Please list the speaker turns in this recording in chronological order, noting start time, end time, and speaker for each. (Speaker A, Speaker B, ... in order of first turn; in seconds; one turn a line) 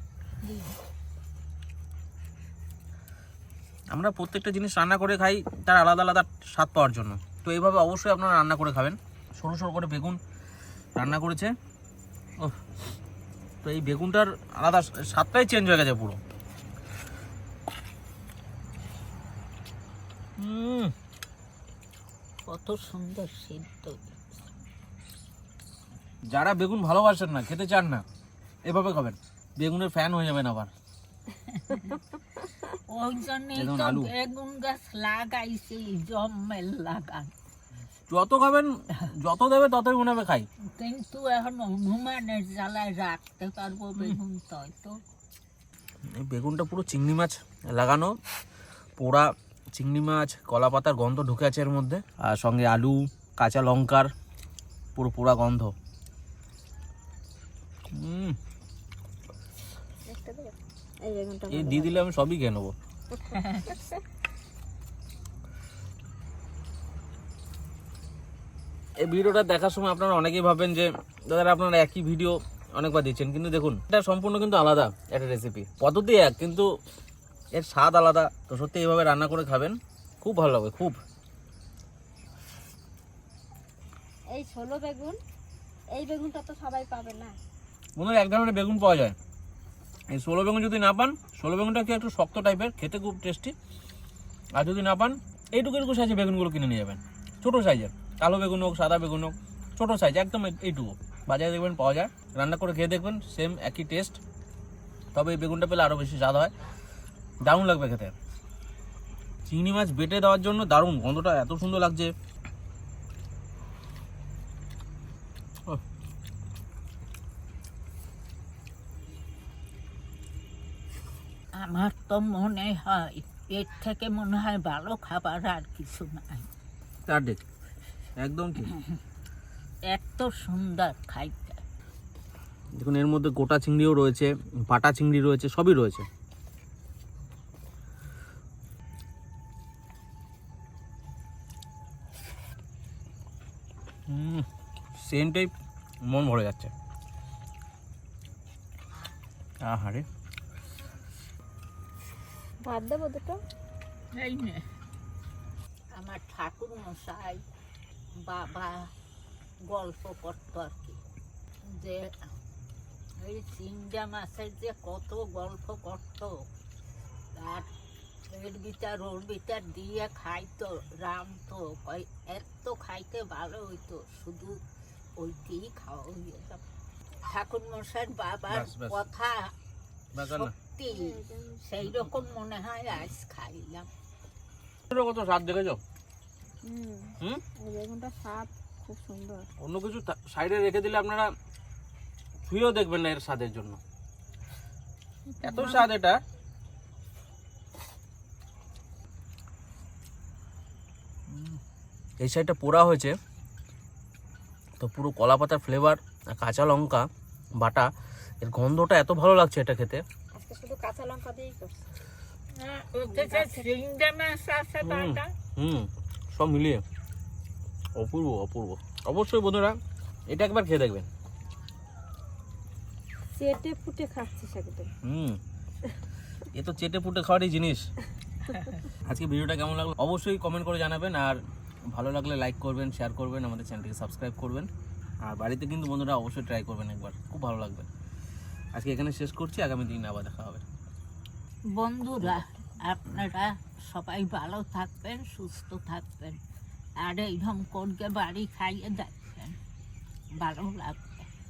Speaker A: 0.4-0.8
Speaker B: 3.9-10.2
Speaker B: 11.0-11.5
Speaker B: 13.6-16.2
Speaker B: 20.4-20.9
Speaker A: 22.5-24.1
Speaker B: 26.3-28.0
Speaker B: 28.6-30.7
Speaker A: 31.4-32.0
Speaker A: 32.9-37.3
Speaker B: 33.6-34.1
Speaker B: 38.1-40.5
Speaker A: 40.7-45.0
Speaker B: 46.1-48.2
Speaker B: 49.0-54.1
Speaker B: 55.0-55.7
Speaker B: 57.9-58.4
Speaker C: 60.1-62.0
Speaker B: 61.5-62.7
Speaker C: 63.1-64.0
Speaker A: 63.3-63.8
Speaker B: 69.0-76.7
Speaker B: 77.5-81.0
Speaker C: 84.3-85.2
Speaker C: 85.9-87.4
Speaker B: 88.0-89.2
Speaker B: 90.1-93.5
Speaker B: 94.5-104.2
Speaker B: 105.1-106.5
Speaker B: 107.4-108.1
Speaker B: 109.5-112.1
Speaker A: 121.6-126.5
Speaker B: 127.1-127.4
Speaker B: 128.2-128.7
Speaker A: 129.9-131.6
Speaker B: 132.8-136.1
Speaker B: 144.1-145.5
Speaker B: 146.1-146.7
Speaker B: 149.6-150.1
Speaker C: 152.6-153.4
Speaker A: 154.1-154.7
Speaker A: 155.9-157.4
Speaker A: 158.2-158.9
Speaker A: 159.7-161.0
Speaker A: 161.7-162.1
Speaker A: 163.2-166.4
Speaker A: 167.3-167.7
Speaker A: 168.3-174.6
Speaker A: 175.2-176.6
Speaker A: 177.2-179.5
Speaker B: 178.5-179.0
Speaker B: 180.2-180.5
Speaker A: 180.2-183.9
Speaker C: 180.9-181.8
Speaker B: 184.9-185.8
Speaker C: 186.6-189.5
Speaker B: 189.6-191.3
Speaker B: 192.5-193.8
Speaker C: 195.3-195.9
Speaker B: 195.4-196.2
Speaker B: 201.3-201.6
Speaker B: 202.2-203.2
Speaker B: 204.8-207.1
Speaker B: 207.6-210.0
Speaker C: 210.3-211.8
Speaker A: 212.6-215.3
Speaker C: 213.1-213.7
Speaker B: 214.8-216.8
Speaker B: 218.0-219.8
Speaker B: 220.3-221.1
Speaker C: 223.3-224.9
Speaker B: 225.0-225.4
Speaker B: 226.5-227.9
Speaker B: 229.0-231.4
Speaker B: 231.9-234.7
Speaker B: 235.2-237.9
Speaker B: 238.8-240.6
Speaker A: 241.8-246.4
Speaker A: 247.0-249.6
Speaker A: 250.4-251.3